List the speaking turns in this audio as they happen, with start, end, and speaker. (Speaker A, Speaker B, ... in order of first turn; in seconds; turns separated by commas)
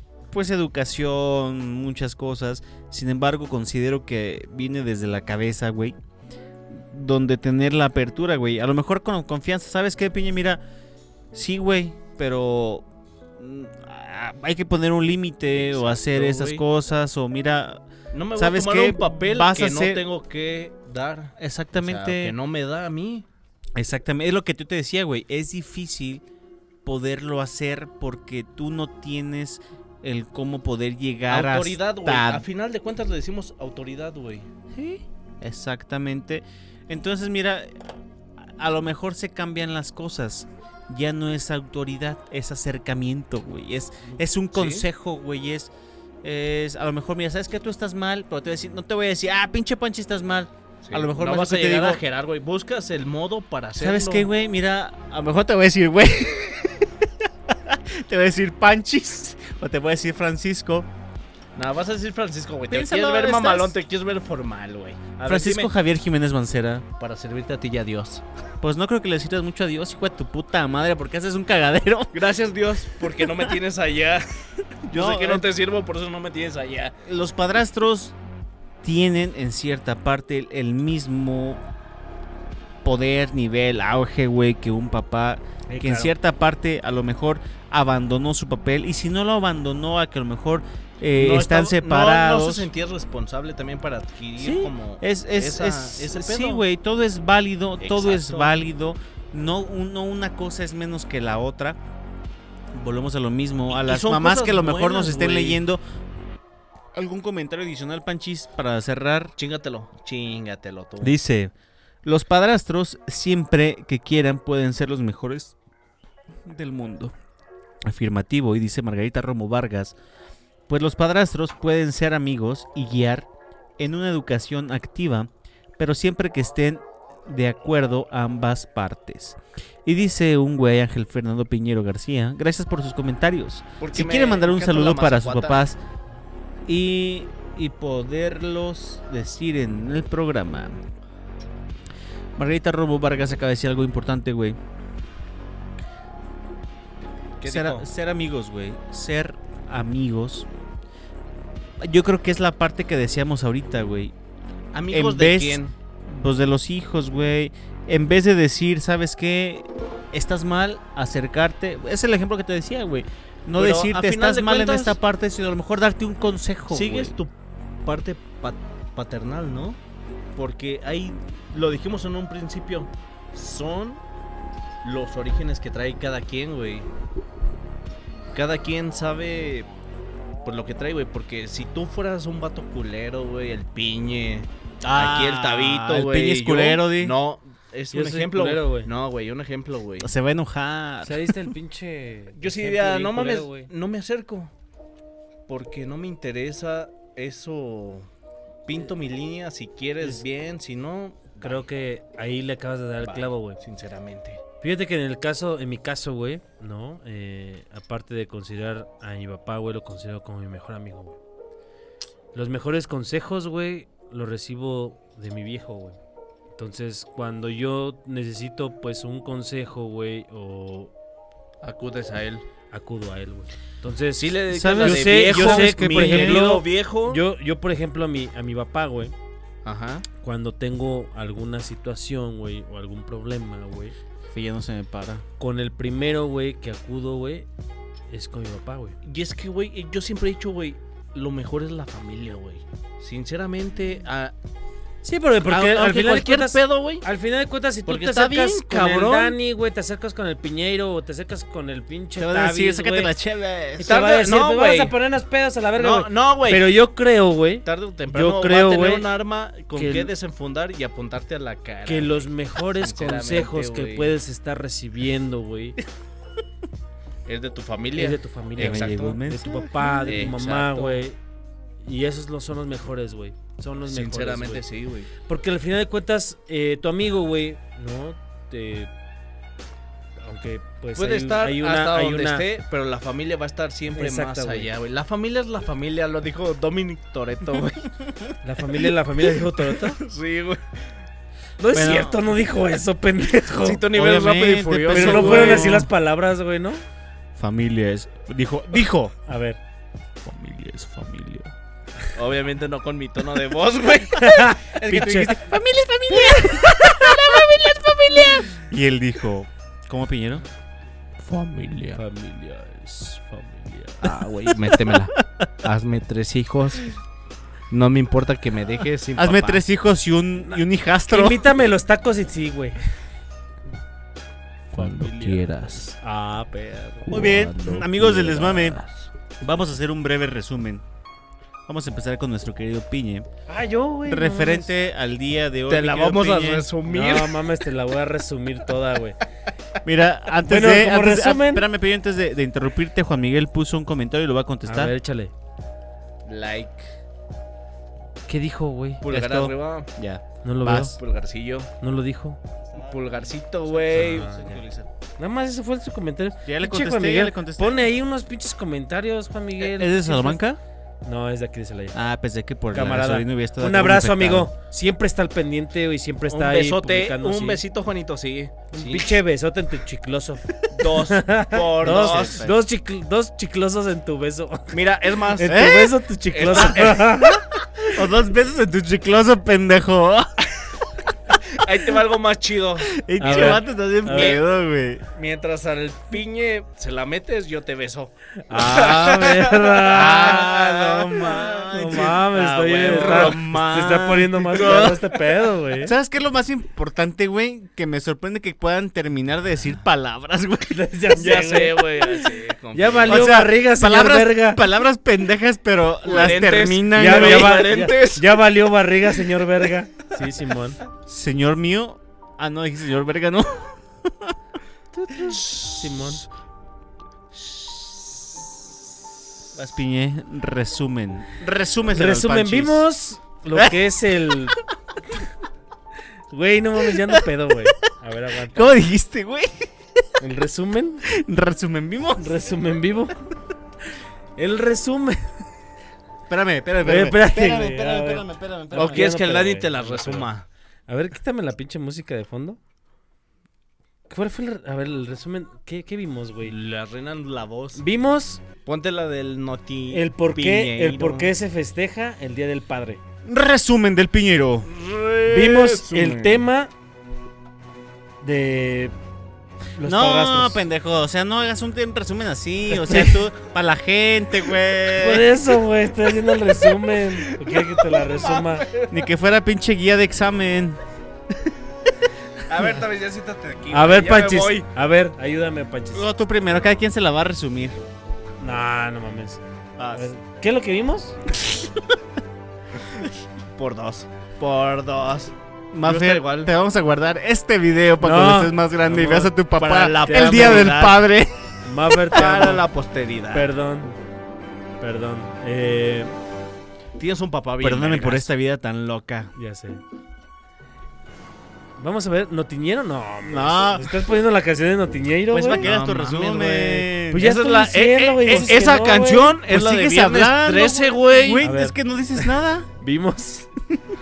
Speaker A: 0.3-6.0, Speaker A: 6.7-10.6, Speaker A: 11.3-12.8, Speaker A: 13.4-17.8, Speaker B: 15.5-16.6, Speaker B: 18.1-23.2, Speaker A: 18.3-20.0, Speaker A: 21.4-22.4, Speaker A: 23.8-26.2, Speaker A: 26.8-32.5, Speaker B: 31.3-34.5, Speaker A: 34.7-37.7, Speaker A: 38.4-45.7, Speaker B: 44.1-44.8, Speaker A: 46.2-52.0, Speaker B: 50.8-54.3, Speaker A: 53.8-60.9, Speaker B: 61.5-65.7, Speaker A: 62.7-63.7, Speaker A: 65.2-66.8, Speaker B: 67.0-68.2, Speaker A: 68.6-72.3, Speaker B: 72.1-74.2, Speaker B: 74.9-76.9, Speaker A: 74.9-75.5, Speaker A: 77.0-78.2, Speaker A: 78.8-81.6, Speaker A: 82.8-92.7, Speaker C: 85.7-86.1, Speaker B: 91.1-96.6, Speaker A: 94.4-101.8, Speaker B: 97.8-98.6, Speaker A: 102.7-105.8, Speaker B: 103.7-105.6, Speaker A: 106.9-109.3, Speaker B: 109.4-111.1, Speaker A: 111.0-111.5, Speaker A: 112.0-115.5, Speaker A: 116.4-117.1, Speaker A: 117.8-120.0, Speaker A: 120.7-135.8, Speaker B: 133.8-135.6, Speaker A: 136.7-140.8, Speaker A: 142.4-144.6, Speaker B: 147.4-147.8, Speaker A: 147.5-150.5, Speaker A: 151.8-154.1, Speaker B: 154.7-155.7, Speaker A: 154.9-167.2, Speaker B: 163.6-165.0, Speaker B: 166.7-167.3, Speaker B: 167.8-169.8, Speaker B: 170.3-174.0, Speaker B: 174.8-176.9, Speaker B: 178.3-179.7, Speaker B: 180.4-190.1, Speaker A: 184.8-187.2, Speaker C: 187.9-188.9, Speaker A: 190.0-191.5, Speaker C: 191.0-193.7, Speaker B: 192.3-194.5, Speaker B: 195.5-198.1, Speaker B: 198.7-201.7, Speaker C: 201.4-203.6, Speaker B: 203.0-204.4, Speaker C: 204.6-211.2, Speaker C: 212.3-216.0, Speaker C: 216.6-220.9, Speaker B: 221.6-222.4, Speaker C: 222.7-229.1, Speaker B: 224.2-227.2, Speaker A: 224.5-226.5, Speaker B: 229.6-230.1, Speaker C: 230.2-233.9, Speaker A: 234.3-235.2, Speaker C: 235.4-237.5, Speaker C: 238.1-238.9, Speaker B: 239.0-244.3, Speaker C: 245.0-253.1, Speaker B: 245.5-247.0, Speaker B: 247.9-249.3, Speaker A: 252.2-253.9, Speaker C: 253.8-259.1, Speaker B: 253.8-254.9, Speaker B: 255.8-256.7, Speaker B: 257.6-262.2, Speaker C: 259.7-260.1, Speaker C: 261.9-265.8, Speaker B: 262.8-264.1, Speaker B: 267.2-269.2, Speaker C: 267.9-271.2, Speaker A: 268.6-269.9, Speaker B: 270.0-271.0, Speaker C: 271.8-274.6, Speaker B: 273.9-275.1, Speaker C: 275.3-278.9, Speaker C: 280.2-282.4, Speaker B: 280.9-287.9, Speaker C: 283.9-284.7, Speaker C: 288.4-290.0, Speaker B: 289.2-290.8, Speaker C: 291.6-293.8, Speaker A: 291.7-292.2, Speaker B: 293.6-295.8, Speaker A: 293.9-295.9, Speaker C: 294.9-296.8, Speaker A: 297.3-299.1, Speaker C: 299.2-299.6, Speaker A: 300.2-301.5, Speaker B: 302.1-305.3, Speaker C: 304.1-305.3, Speaker A: 304.8-310.4, Speaker B: 311.2-312.0, Speaker C: 311.9-314.1, Speaker B: 314.0-316.9, Speaker A: 314.5-315.0, Speaker B: 317.7-319.6, Speaker A: 319.1-321.5, Speaker C: 320.5-322.9, Speaker C: 324.7-327.2, Speaker B: 324.7-325.9, Speaker B: 327.1-329.1, Speaker A: 327.1-328.8, Speaker A: 329.4-330.8, Speaker A: 331.7-333.3, Speaker C: 333.5-334.7, Speaker A: 334.1-336.7, Speaker B: 335.7-337.4, Speaker C: 336.9-339.2, Speaker A: 339.8-344.9, Speaker C: 340.4-341.6, Speaker C: 344.6-345.3, Speaker B: 346.2-346.9, Speaker C: 348.3-349.0, Speaker B: 349.0-349.9, Speaker A: 349.1-351.0, Speaker C: 350.4-351.0, Speaker B: 351.0-351.7, Speaker C: 351.8-352.4, Speaker A: 352.7-354.9, Speaker B: 352.8-354.6, Speaker C: 353.9-354.6, Speaker C: 355.2-360.4, Speaker A: 356.4-357.8, Speaker A: 359.6-360.6, Speaker C: 361.0-362.0, Speaker A: 361.9-364.5, Speaker C: 362.7-367.6, Speaker B: 366.3-369.1, Speaker C: 368.7-374.8, Speaker B: 370.7-372.5, Speaker A: 371.8-372.6, Speaker B: 374.7-375.7, Speaker C: 375.3-377.4, Speaker A: 375.4-375.9, Speaker B: 376.3-377.2, Speaker A: 376.5-377.0, Speaker A: 377.5-380.8, Speaker B: 381.4-384.4, Speaker A: 382.9-385.1, Speaker C: 383.2-384.4, Speaker B: 385.1-393.6, Speaker C: 388.4-390.5, Speaker A: 389.9-392.2, Speaker C: 391.6-395.9, Speaker A: 392.8-395.0, Speaker B: 394.5-395.2, Speaker A: 395.8-400.9, Speaker C: 400.7-404.6, Speaker B: 401.1-403.3, Speaker A: 403.1-407.8, Speaker B: 406.0-408.4, Speaker C: 406.9-410.8, Speaker A: 411.1-414.4, Speaker C: 415.0-416.2, Speaker B: 415.2-416.2, Speaker B: 417.4-418.5, Speaker A: 419.5-422.9, Speaker C: 421.9-424.6, Speaker A: 423.5-424.4, Speaker C: 426.3-428.7, Speaker A: 428.5-430.0, Speaker C: 430.2-431.1, Speaker A: 431.1-432.5, Speaker C: 432.2-433.2, Speaker C: 434.4-435.2, Speaker A: 436.3-439.1, Speaker C: 436.8-440.3, Speaker B: 438.7-440.4, Speaker C: 440.9-442.6, Speaker C: 444.1-446.5, Speaker B: 446.4-447.8, Speaker C: 447.8-448.4, Speaker B: 448.6-451.3, Speaker C: 449.9-453.0, Speaker A: 453.2-454.7, Speaker B: 454.6-456.4, Speaker C: 455.3-456.7, Speaker C: 458.2-458.9, Speaker C: 459.8-460.6, Speaker A: 459.8-465.3, Speaker C: 462.7-463.2, Speaker C: 465.0-468.6, Speaker B: 467.2-469.1, Speaker A: 468.9-471.5, Speaker B: 472.4-474.7, Speaker C: 473.7-476.1, Speaker A: 475.9-477.8, Speaker C: 478.4-481.2, Speaker A: 479.8-480.1, Speaker A: 481.4-481.7, Speaker B: 482.9-486.5, Speaker A: 485.7-491.3, Speaker C: 488.0-489.3, Speaker B: 489.5-491.0, Speaker C: 490.0-490.8, Speaker C: 491.6-492.6, Speaker A: 491.9-492.6, Speaker B: 492.1-493.5, Speaker C: 493.3-493.9, Speaker C: 494.8-496.1, Speaker B: 497.0-498.3, Speaker A: 497.6-499.3, Speaker C: 499.3-499.8, Speaker C: 501.8-505.6, Speaker A: 503.3-504.0, Speaker A: 505.3-507.3, Speaker B: 505.6-511.4, Speaker C: 507.1-509.4, Speaker A: 508.2-512.7, Speaker C: 511.4-511.8, Speaker C: 512.8-513.5